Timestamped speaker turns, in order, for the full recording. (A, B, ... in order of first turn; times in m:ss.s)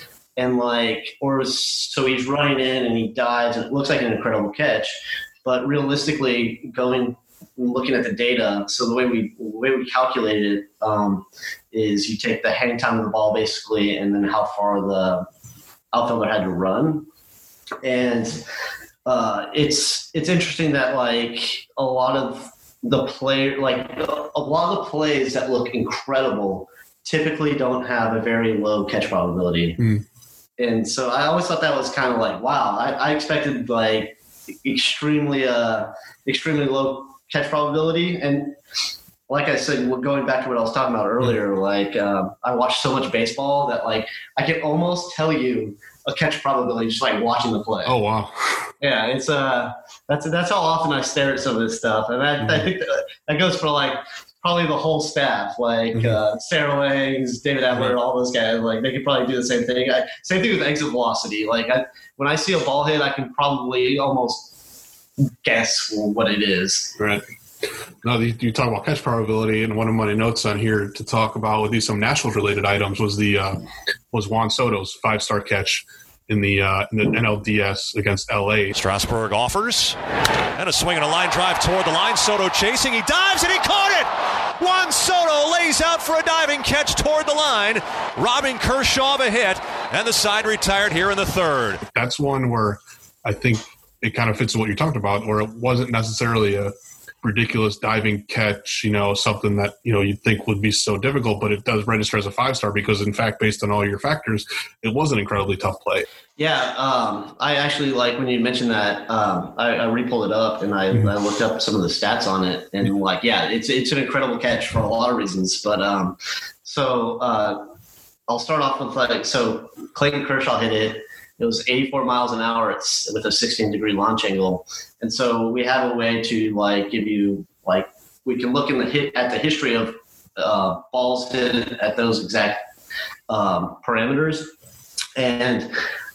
0:00.4-0:15.3 A
0:15.9-0:17.1 A
0:17.8-0:18.4 A
0:19.1-0:29.8 A
0:29.8-0:30.0 B
0:30.6-0:38.6 A
0:39.3-0:48.0 A
0:47.8-0:48.7 B
0:48.8-1:04.5 A
0:55.9-0:56.2 B
1:05.2-1:07.0 A
1:07.0-1:07.2 B
1:08.0-1:18.8 B
1:18.8-1:20.0 C
1:20.6-1:31.8 C
1:31.9-1:46.1 B
1:46.4-1:57.6 A
1:58.3-2:12.7 A
2:13.3-2:14.5 A
2:15.2-2:15.7 A